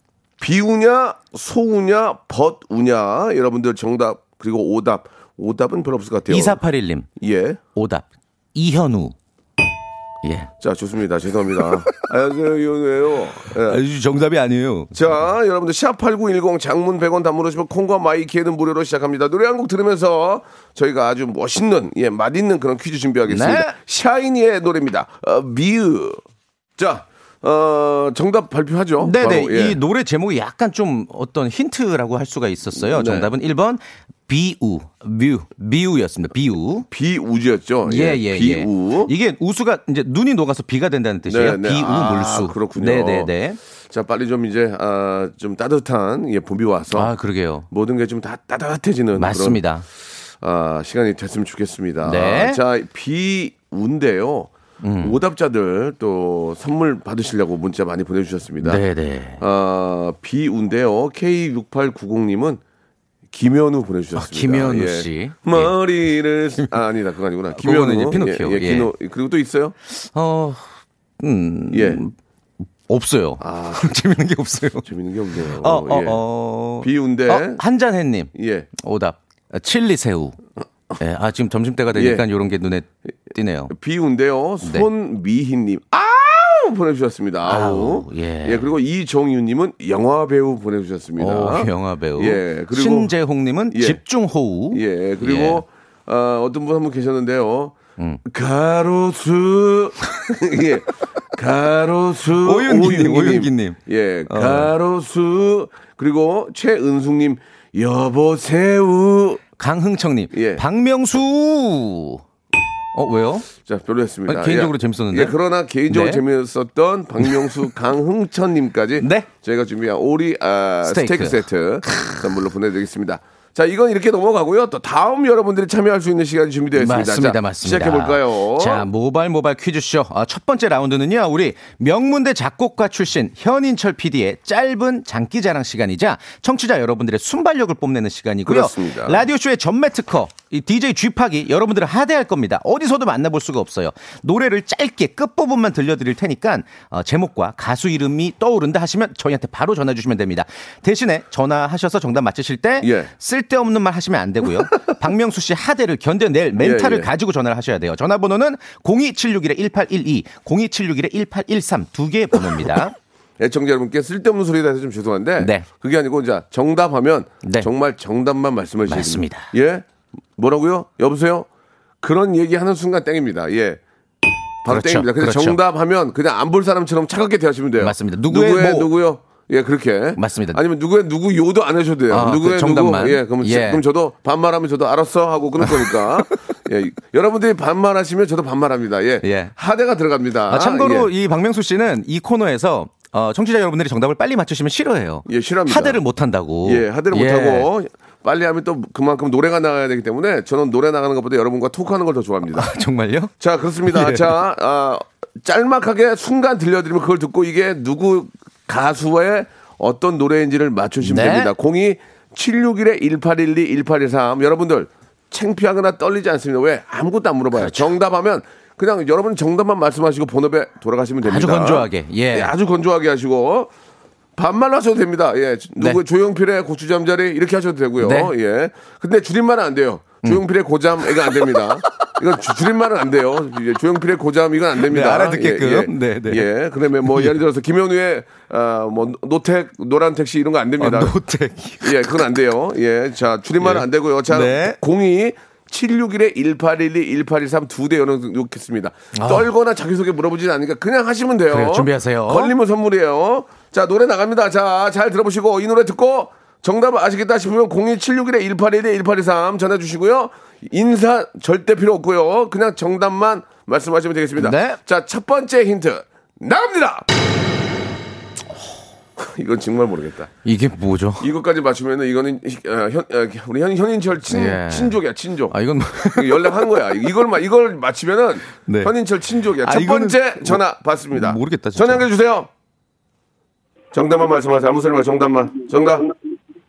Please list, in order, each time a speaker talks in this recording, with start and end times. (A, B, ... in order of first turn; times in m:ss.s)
0:00.4-0:06.6 A
0:06.3-0:07.1 B
0:07.2-0:07.6 A
0:07.7-0:09.1 B
0:10.2-0:10.5 B
0:10.6-0:13.8 A
0:13.6-0:14.9 B
0:14.9-0:26.2 A
0:23.3-0:23.8 B
0:26.8-0:29.8 A
0:29.0-0:36.9 B
0:32.7-0:33.3 A
0:36.9-0:39.1 A
0:37.8-0:43.6 B
0:41.3-0:43.3 A
0:43.9-0:47.1 A
0:46.9-0:47.7 B
0:47.7-0:49.6 A
0:49.2-0:49.8 B
0:50.4-0:58.8 A
0:52.0-0:52.6 B
0:54.8-0:55.2 B
0:58.6-0:59.4 B
0:59.4-1:02.6 A
1:03.3-1:09.7 A
1:04.2-1:05.8 B
1:07.6-1:08.9 B
1:09.9-1:10.7 B
1:11.2-1:12.1 B
1:11.7-1:12.0 A
1:12.8-1:14.8 B
1:13.4-1:13.9 A
1:14.8-1:16.2 A
1:15.5-1:20.4 B
1:16.8-1:17.6 A
1:18.3-1:18.7 A
1:21.0-1:23.7 B
1:21.9-1:22.2 A
1:23.7-1:33.1 A
1:27.4-1:28.7 B
1:31.2-1:35.6 B
1:33.7-1:34.0 A
1:34.7-1:49.4 A
1:42.4-1:44.7 B
1:49.6-1:52.2 B
1:50.3-1:50.6 A
1:52.9-1:53.5 B
1:53.6-2:08.8 A
1:54.3-1:55.4 B
1:55.9-1:56.2 B
1:57.2-1:57.5 B
1:59.0-1:59.3 B
2:00.8-2:02.2 B
2:06.8-2:42.9 B
2:18.4-2:19.2 A
2:32.8-2:33.1 A
2:36.6-2:37.1 A
2:43.4-2:49.8 A
2:45.4-2:45.6 B
2:47.4-2:47.7 B
2:48.9-2:49.5 B
2:50.4-2:51.5 A
2:52.0-2:53.8 A
2:54.6-3:11.1 A
2:54.7-2:55.6 B
2:57.8-2:58.9 B
3:00.2-3:00.6 B
3:02.1-3:03.8 B
3:05.6-3:06.3 B
3:09.2-3:09.5 B
3:10.5-3:17.7 B
3:15.2-3:16.0 A
3:16.6-3:22.7 A
3:22.6-3:23.3 B
3:23.4-3:43.7 A
3:23.9-3:24.4 B
3:31.0-3:31.5 B
3:37.5-3:37.9 B
3:41.2-3:42.5 B
3:44.4-4:01.2 A
3:48.0-3:48.3 B
3:51.0-3:51.6 B
3:54.8-3:56.5 B
3:57.0-3:57.4 B
4:00.8-4:02.3 B
4:01.8-4:27.0 A
4:03.6-4:04.8 B
4:09.1-4:09.5 B
4:11.5-4:12.5 B
4:24.4-4:24.8 B
4:29.2-4:30.3 A
4:30.4-4:31.2 B
4:31.2-4:42.5 A
4:34.3-4:36.7 B
4:38.6-4:38.9 B
4:39.6-4:40.6 B
4:41.1-4:42.0 B
4:43.9-4:46.1 A